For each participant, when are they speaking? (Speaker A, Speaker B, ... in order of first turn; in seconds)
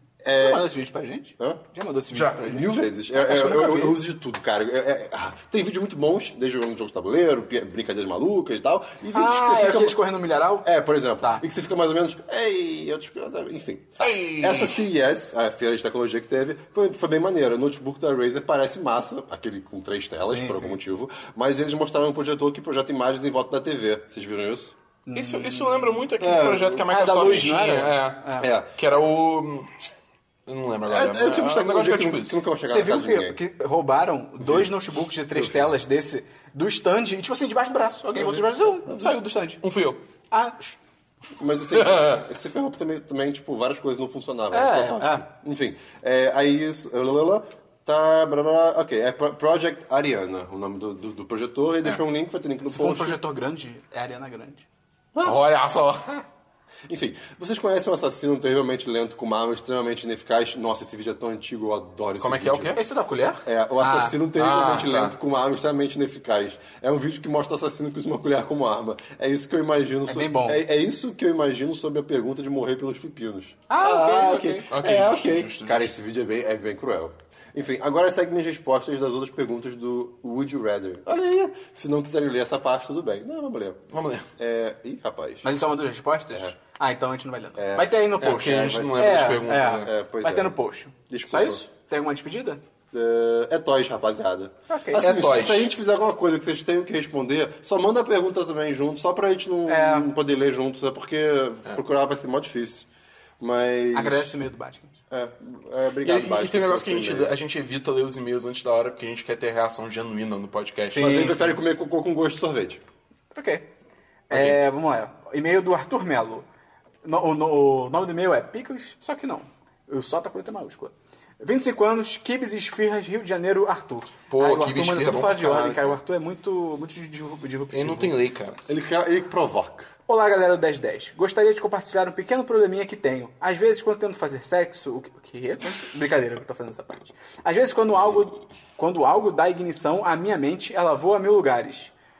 Speaker A: 0.2-0.7, 2.4-10.0, 10.6-24.7, 26.2-27.5, 28.4-28.7, 30.9-33.4, 34.4-34.7, 35.3-35.7, 38.2-39.1, 41.4-53.2, 55.1-55.4, 56.9-62.8, 63.4-83.8, 84.4-85.5, 87.6-89.0, 89.7-90.5, 91.1-91.6, 92.9-102.9, 103.4-104.3, 105.1-107.3, 110.9-112.8, 128.7-129.9
Speaker B: 0.3-4.0, 9.1-10.7, 20.3-20.8, 25.1-26.1, 26.8-28.5, 32.6-39.6, 40.3-40.8, 44.5-45.2, 52.6-54.6, 62.7-64.2, 70.1-70.6, 73.7-74.7, 85.4-92.6, 94.7-95.0, 99.7-100.1, 103.9-104.9, 110.8-111.6, 113.3-113.7, 114.3-116.5, 117.0-128.2, 130.1-141.9
Speaker C: 2.1-2.4, 14.2-14.6, 25.1-29.7, 30.4-32.4, 39.6-40.0, 41.7-42.2, 55.2-56.2, 62.2-62.8, 64.3-65.1, 74.7-75.9, 83.9-84.3, 88.2-89.9, 95.0-95.7, 106.0-111.2, 114.3-114.6, 124.3-126.0, 127.7-128.6